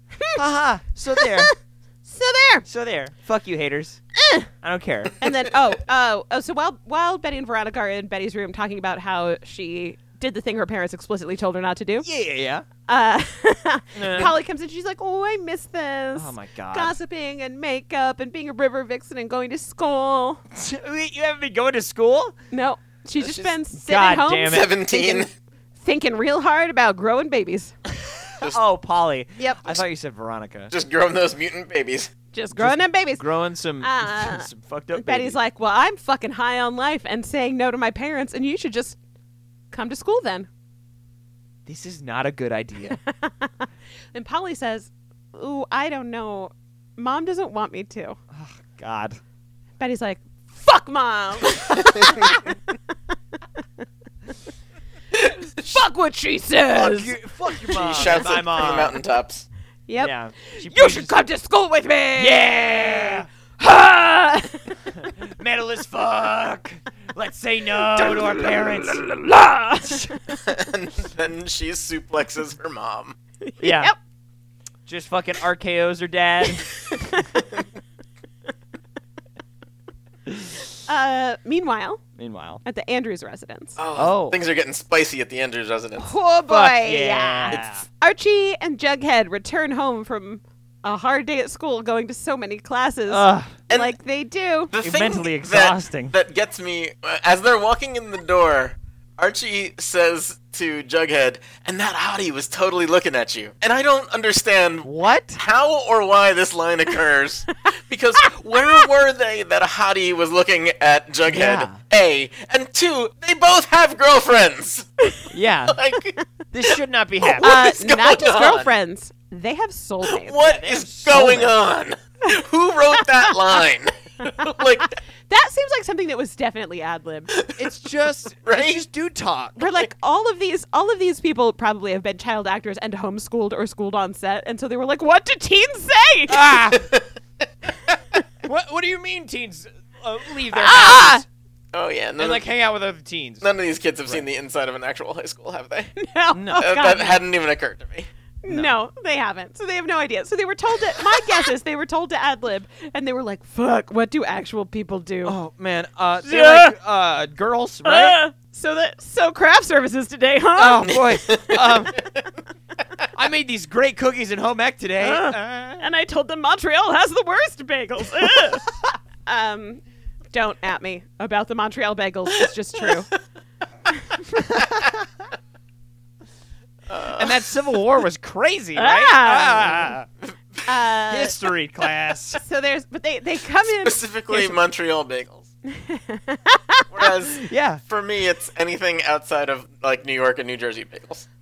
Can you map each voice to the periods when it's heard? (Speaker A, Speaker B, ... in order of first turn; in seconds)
Speaker A: 0.3-1.5, 2.6-4.0, 4.6-5.2, 12.0-12.7, 14.0-14.3, 16.1-17.0, 20.5-22.4, 23.7-24.7, 28.4-30.7, 32.6-35.4, 41.7-43.0, 48.3-49.2, 56.8-59.0, 60.0-61.1, 62.2-63.3, 65.0-69.1, 69.8-70.1, 73.6-73.9, 74.9-76.7, 80.3-80.5, 82.2-82.6, 84.0-84.4, 86.5-87.8, 93.1-93.6, 94.8-96.1, 104.8-105.4, 111.3-111.8, 115.3-115.8, 116.5-117.6, 120.4-121.6, 127.6-129.6, 136.3-136.9, 138.4-141.2, 142.2-143.4, 146.3-146.9, 148.5-148.8, 155.2-158.2, 160.6-162.0, 163.1-165.8, 177.1-180.1, 181.1-182.4, 187.4-187.8
Speaker B: 1.2-2.7, 4.2-4.5, 5.2-12.1, 12.9-20.4, 22.5-25.3, 25.8-27.8, 29.4-29.8, 32.3-33.3, 33.8-39.0, 39.7-40.5, 42.9-48.2, 49.8-52.5, 55.7-58.2, 59.9-65.1, 68.0-70.4, 73.5-74.0, 77.0-77.4, 80.9-82.0, 82.7-83.8, 86.0-94.7, 108.2-108.8, 117.4-120.6, 125.3-127.3, 129.6-136.5, 140.5-141.2, 146.0-147.2, 148.4-155.4, 156.2-156.8, 157.8-160.9, 165.0-168.7, 169.3-169.8, 170.3-173.1, 173.9-174.5, 178.8-179.9, 180.7-181.4, 182.3-184.6, 185.7-187.1
Speaker C: 23.2-23.6, 24.5-25.3, 30.7-32.1, 51.7-52.3, 55.1-55.8, 57.7-59.5, 70.5-73.2, 83.8-86.1, 87.5-87.8, 93.7-94.0, 94.7-114.9, 115.7-116.2, 117.2-118.7, 120.0-125.0, 127.3-127.7, 128.4-128.8, 136.7-137.1, 141.7-142.4, 143.4-145.9, 146.6-148.1, 160.9-162.2, 176.9-177.4, 183.7-185.5, 186.9-191.3